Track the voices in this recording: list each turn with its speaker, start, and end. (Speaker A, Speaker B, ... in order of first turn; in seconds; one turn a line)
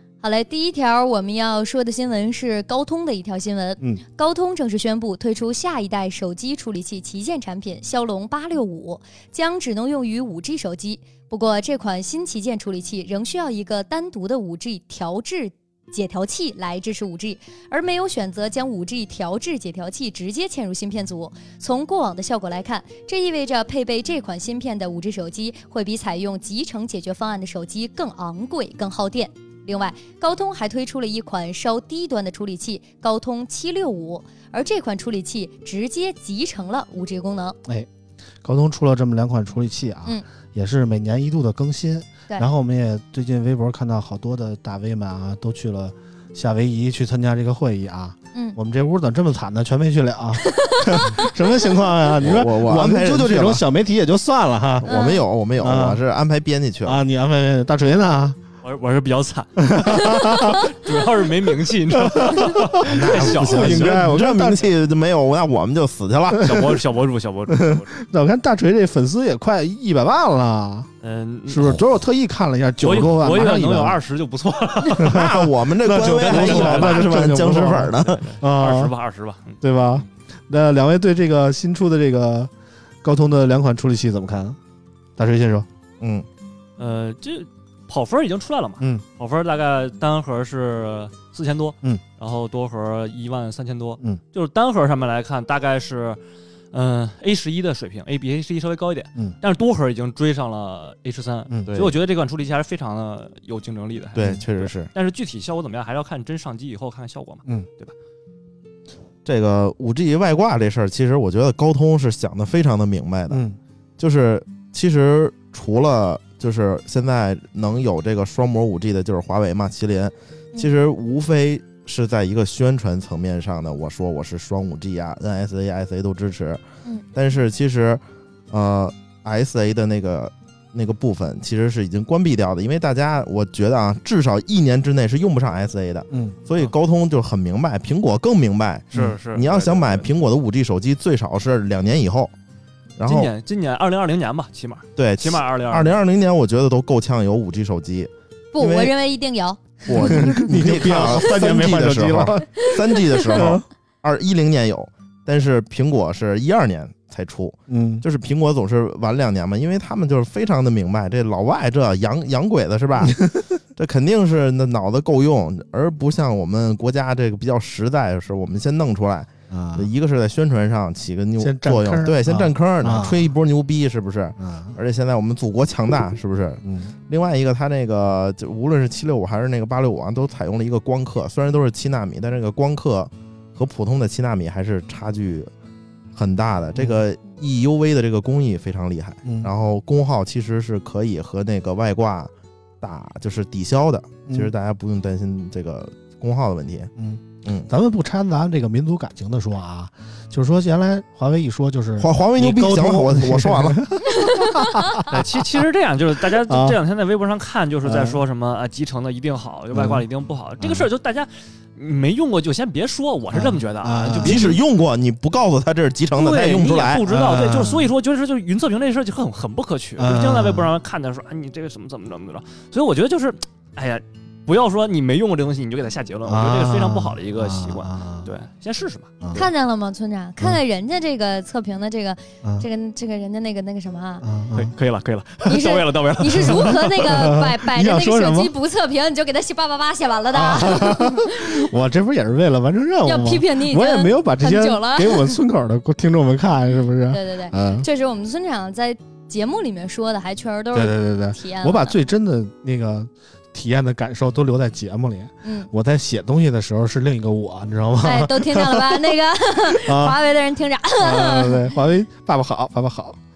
Speaker A: 0.2-37.6
Speaker B: 38.4-54.9
Speaker A: 50.7-51.1
Speaker C: 52.2-53.6
Speaker C: 54.8-57.0
Speaker A: 54.9-55.2
Speaker B: 55.6-56.0
Speaker B: 56.8-58.4
Speaker D: 58.6-64.0
Speaker B: 59.6-60.7
Speaker B: 61.9-64.7
Speaker C: 62.8-66.7
Speaker D: 66.4-68.0
Speaker B: 67.5-70.9
Speaker D: 71.0-71.8
Speaker B: 71.5-74.0
Speaker D: 72.8-79.6
Speaker B: 75.0-78.9
Speaker C: 75.0-78.2
Speaker B: 79.6-82.5
Speaker B: 83.0-84.6
Speaker B: 85.2-85.7
Speaker C: 86.0-86.3
Speaker D: 86.8-96.2
Speaker D: 96.7-107.9
Speaker C: 101.7-101.9
Speaker C: 104.1-104.9
Speaker C: 109.2-113.4
Speaker B: 113.3-113.6
Speaker C: 114.0-126.6
Speaker C: 127.1-142.3
Speaker B: 136.1-136.4
Speaker B: 138.9-139.2
Speaker D: 138.9-140.1
Speaker C: 143.0-143.3
Speaker D: 143.0-146.0
Speaker C: 145.0-148.9
Speaker A: 148.5-150.3
Speaker C: 149.8-163.2
Speaker B: 150.0-152.7
Speaker A: 152.7-153.2
Speaker B: 153.2-153.6
Speaker B: 157.7-158.0
Speaker B: 163.0-163.5
Speaker C: 163.8-185.5
Speaker B: 169.5-169.9
Speaker B: 171.4-173.3
Speaker B: 174.4-174.8
Speaker B: 176.6-176.9
Speaker C: 186.1-196.9
Speaker B: 186.8-187.0
Speaker B: 189.2-189.5
Speaker B: 197.0-205.3
Speaker C: 197.4-197.7
Speaker C: 202.0-203.8
Speaker A: 204.2-204.8
Speaker D: 205.0-214.6
Speaker B: 206.3-206.8
Speaker B: 207.8-208.2
Speaker B: 209.7-210.0
Speaker B: 210.6-210.9
Speaker B: 213.3-214.6
Speaker C: 214.2-217.0
Speaker D: 216.1-229.5
Speaker B: 217.1-217.9
Speaker B: 220.0-220.7
Speaker B: 226.2-228.3
Speaker B: 229.2-229.5
Speaker A: 229.3-234.3
Speaker B: 234.2-234.7
Speaker D: 234.5-237.1
Speaker A: 235.4-241.7
Speaker B: 236.4-238.5
Speaker B: 240.3-247.8
Speaker A: 243.0-245.4
Speaker A: 247.1-251.9
Speaker B: 250.7-260.2
Speaker A: 255.4-255.7
Speaker A: 258.0-261.7
Speaker B: 261.0-263.2